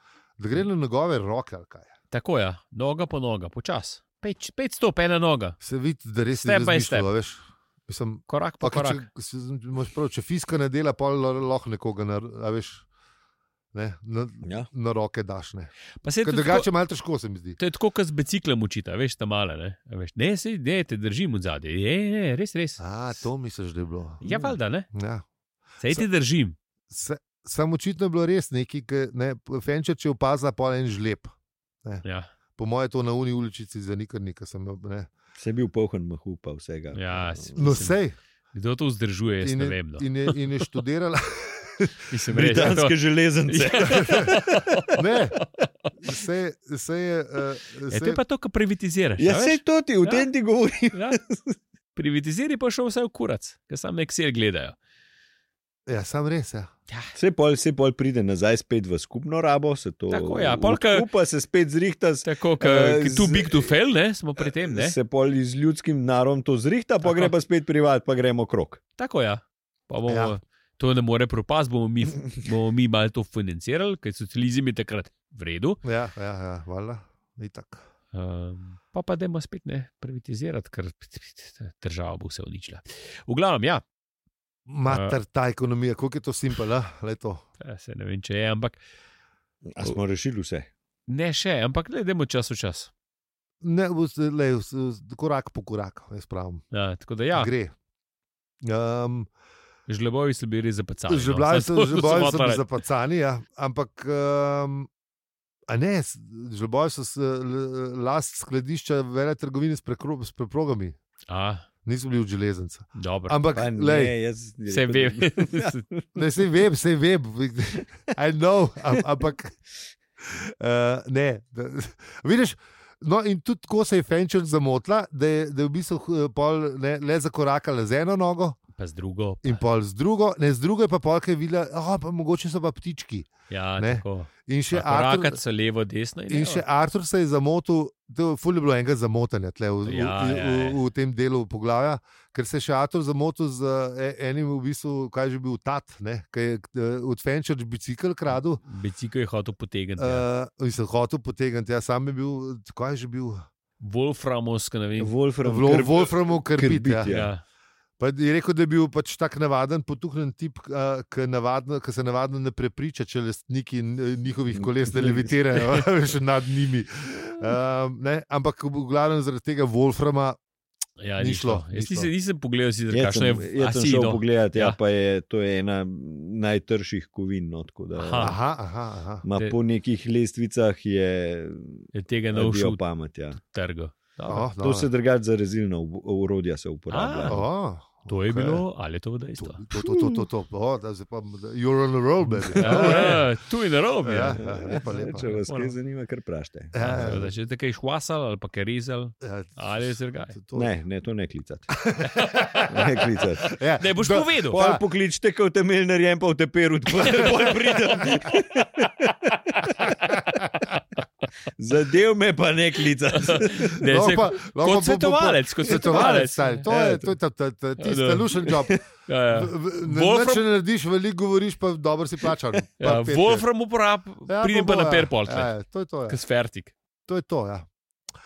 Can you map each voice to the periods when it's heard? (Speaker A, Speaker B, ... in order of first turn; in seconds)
Speaker A: 0.4-1.9, 5.6-12.8, 13.7-17.6, 22.8-25.3, 26.9-32.0, 32.6-35.1, 37.6-38.2, 39.4-42.8, 43.8-44.4, 44.9-45.4, 46.0-48.2, 55.9-56.7, 70.1-70.4, 75.8-77.8, 84.7-87.5, 93.6-96.7, 97.3-97.7, 98.6-99.3, 101.1-104.9, 105.7-111.0, 111.8-114.1, 116.2-119.6, 120.2-128.6, 129.4-135.4, 136.3-148.6, 150.0-153.5, 155.4-157.1, 158.0-170.4, 171.2-172.1, 178.2-179.2, 184.3-184.9, 187.3-188.7, 189.4-193.3, 194.0-195.3, 196.7-197.3, 199.2-200.7, 201.8-204.8, 210.1-210.4, 213.8-218.8, 219.3-223.5, 224.3-226.2, 227.1-227.7
Speaker B: 2.1-5.6, 6.3-7.1, 8.3-9.1, 16.0-16.7, 17.6-22.8, 24.2-24.9, 25.8-26.6, 32.0-32.3, 36.9-38.0, 38.5-40.4, 42.1-45.9, 47.9-50.3, 50.9-51.2, 52.0-54.8, 60.1-61.1, 62.2-65.0, 67.0-67.3, 69.0-75.8, 78.1-83.8, 84.9-85.2, 87.6-88.8, 91.1-92.9, 96.7-97.5, 99.9-102.7, 111.3-111.7, 113.0-113.4, 114.7-115.8, 128.8-129.6, 133.5-136.6, 139.9-140.8, 148.6-150.3, 153.8-155.1, 157.1-157.4, 171.0-174.8, 178.0-178.4, 181.9-182.8, 183.4-184.5, 186.9-187.4, 188.1-189.6, 192.6-195.7, 196.8-200.4, 202.1-202.3, 203.8-204.6, 207.1-208.3, 209.7-210.8, 213.2-217.1, 217.8-218.4, 219.1-220.4, 222.8-225.5, 226.1-226.7
Speaker C: 14.4-14.7, 35.4-37.5, 42.3-44.8, 49.2-51.6, 57.1-63.7, 64.4-68.8, 89.7-90.7, 113.6-116.3, 155.0-157.3, 164.5-165.3, 172.9-178.4, 179.2-183.4, 184.6-187.4, 189.7-190.3, 192.3-193.2, 194.4-197.3, 200.6-201.8, 202.7-203.6, 204.5-209.9, 211.6-213.8, 215.7-216.1, 218.4-218.8